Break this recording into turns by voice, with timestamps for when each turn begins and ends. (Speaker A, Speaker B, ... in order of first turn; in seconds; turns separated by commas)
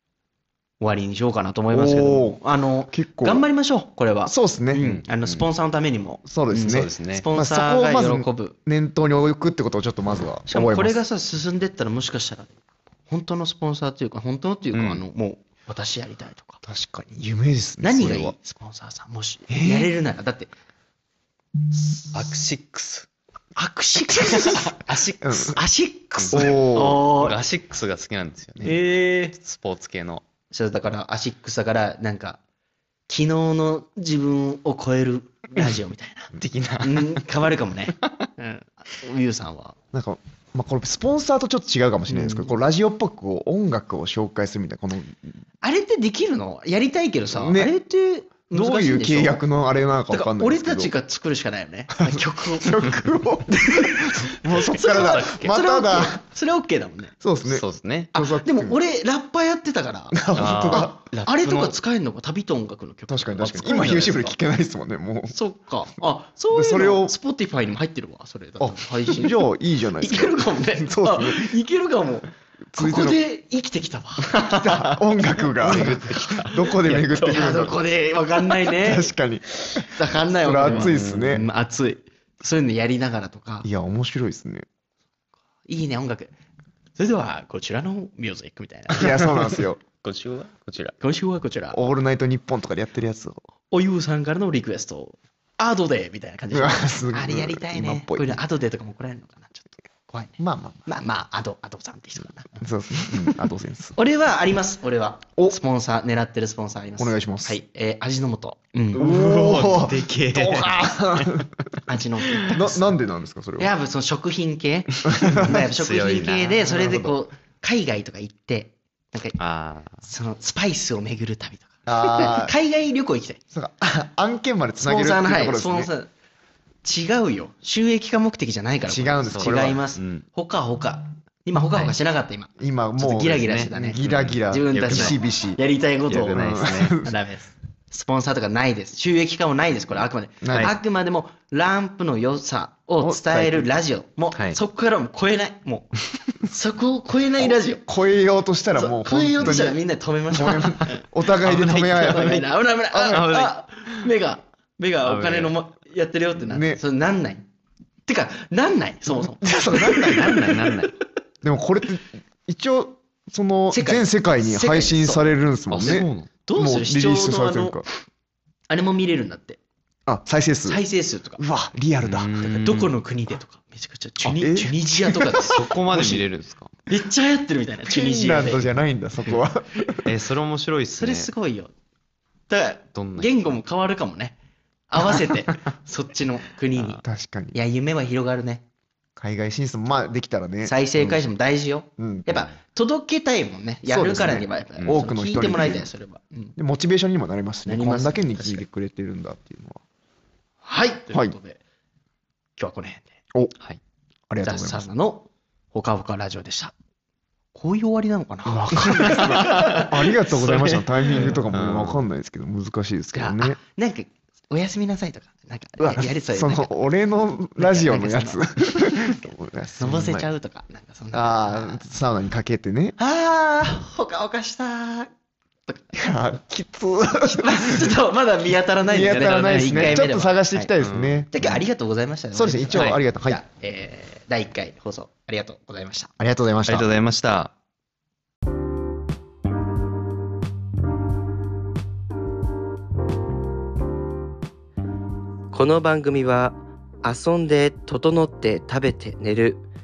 Speaker A: 0.8-8.5, Speaker B: 1.7-2.4, Speaker B: 2.9-3.4, Speaker B: 4.2-4.8, Speaker C: 4.8-5.5, Speaker B: 6.2-11.0, Speaker C: 6.5-7.2, Speaker A: 10.5-12.5, Speaker A: 13.1-16.6, Speaker C: 14.7-15.0, Speaker B: 16.6-18.3, Speaker A: 17.8-20.5, Speaker B: 19.5-19.9, Speaker C: 22.1-23.1, Speaker A: 23.6-27.4, Speaker B: 25.2-25.6, Speaker B: 26.3-27.1, Speaker C: 26.3-30.2, Speaker A: 28.6-29.3, Speaker A: 30.5-32.4, Speaker A: 33.1-39.8, Speaker C: 36.3-37.2, Speaker B: 39.9-45.4, Speaker A: 42.1-42.5, Speaker A: 45.6-49.4, Speaker B: 47.3-47.7, Speaker B: 48.5-50.9, Speaker A: 50.1-57.1, Speaker B: 52.0-56.2, Speaker C: 54.8-55.5, Speaker B: 57.2-58.8, Speaker C: 57.5-58.1, Speaker A: 58.2-64.4, Speaker B: 60.1-61.0, Speaker C: 60.4-61.7, Speaker B: 63.1-65.3, Speaker A: 65.3-69.5, Speaker B: 66.0-67.1, Speaker B: 68.6-71.5, Speaker A: 70.0-74.9, Speaker B: 72.7-73.2, Speaker B: 74.4-77.8, Speaker A: 75.6-79.1, Speaker C: 75.6-76.4, Speaker B: 78.7-81.5, Speaker A: 79.9-83.7, Speaker C: 80.7-81.4, Speaker B: 83.6-84.7, Speaker A: 85.7-86.3, Speaker A: 87.0-89.5, Speaker B: 88.9-89.8, Speaker C: 90.0-91.0, Speaker A: 91.0-91.8, Speaker B: 91.7-93.4, Speaker A: 93.7-103.3, Speaker B: 96.5-98.4, Speaker B: 100.4-100.8, Speaker B: 102.6-104.0, Speaker A: 104.0-109.0, Speaker B: 107.0-107.6, Speaker C: 108.9-111.5, Speaker B: 108.9-111.5, Speaker A: 111.9-112.9, Speaker B: 112.5-113.7, Speaker A: 113.6-119.4, Speaker B: 115.0-115.6, Speaker C: 115.3-116.8, Speaker B: 116.7-117.1, Speaker C: 119.4-120.0, Speaker A: 120.0-123.4, Speaker B: 121.8-122.5, Speaker B: 123.5-125.9, Speaker A: 124.8-126.1, Speaker A: 126.8-147.8, Speaker B: 128.9-129.8, Speaker C: 129.3-130.2, Speaker B: 132.6-135.6, Speaker C: 133.3-135.2, Speaker C: 136.1-137.0, Speaker B: 136.3-137.1, Speaker B: 140.4-140.7, Speaker B: 143.0-143.7, Speaker B: 147.4-149.8, Speaker A: 148.8-157.4, Speaker B: 150.3-153.2, Speaker C: 151.4-154.1, Speaker C: 155.0-155.6, Speaker B: 156.4-156.8, Speaker A: 158.1-160.8, Speaker B: 159.1-160.6, Speaker C: 160.3-160.9, Speaker B: 161.4-167.8, Speaker A: 163.7-165.3, Speaker C: 165.7-166.3, Speaker A: 165.8-167.8, Speaker A: 168.7-169.6, Speaker B: 170.1-170.8, Speaker A: 170.7-171.4, Speaker B: 171.4-172.3, Speaker C: 172.0-173.0, Speaker A: 172.4-176.2, Speaker B: 174.2-176.2, Speaker C: 175.4-176.7, Speaker A: 176.9-178.6, Speaker B: 177.8-180.0, Speaker A: 179.7-180.0, Speaker C: 180.0-181.3, Speaker A: 181.0-181.7, Speaker A: 182.5-184.3, Speaker C: 182.9-183.3, Speaker A: 184.9-188.6, Speaker B: 187.0-187.6, Speaker B: 189.2-191.2, Speaker A: 190.6-196.6, Speaker B: 192.0-192.3, Speaker B: 193.9-195.9, Speaker B: 196.6-199.8, Speaker A: 197.7-198.6, Speaker A: 200.6-201.6, Speaker A: 202.6-203.1, Speaker B: 204.3-204.8, Speaker A: 204.4-206.7, Speaker A: 207.5-210.1, Speaker B: 208.4-213.6, Speaker C: 209.1-212.0, Speaker A: 211.1-211.4, Speaker A: 213.1-216.7, Speaker B: 215.8-220.1, Speaker A: 217.6-221.8, Speaker C: 219.9-220.2, Speaker B: 221.1-222.9, Speaker A: 223.0-225.1, Speaker A: 225.7-226.0, Speaker B: 225.9-227.9, Speaker A: 227.2-230.7, Speaker B: 228.9-231.6, Speaker C: 229.6-230.0, Speaker C: 230.8-231.2, Speaker A: 231.3-236.1, Speaker B: 232.3-233.4, Speaker C: 232.7-233.0, Speaker B: 236.2-236.9, Speaker C: 236.7-237.5, Speaker D: 245.5-249.6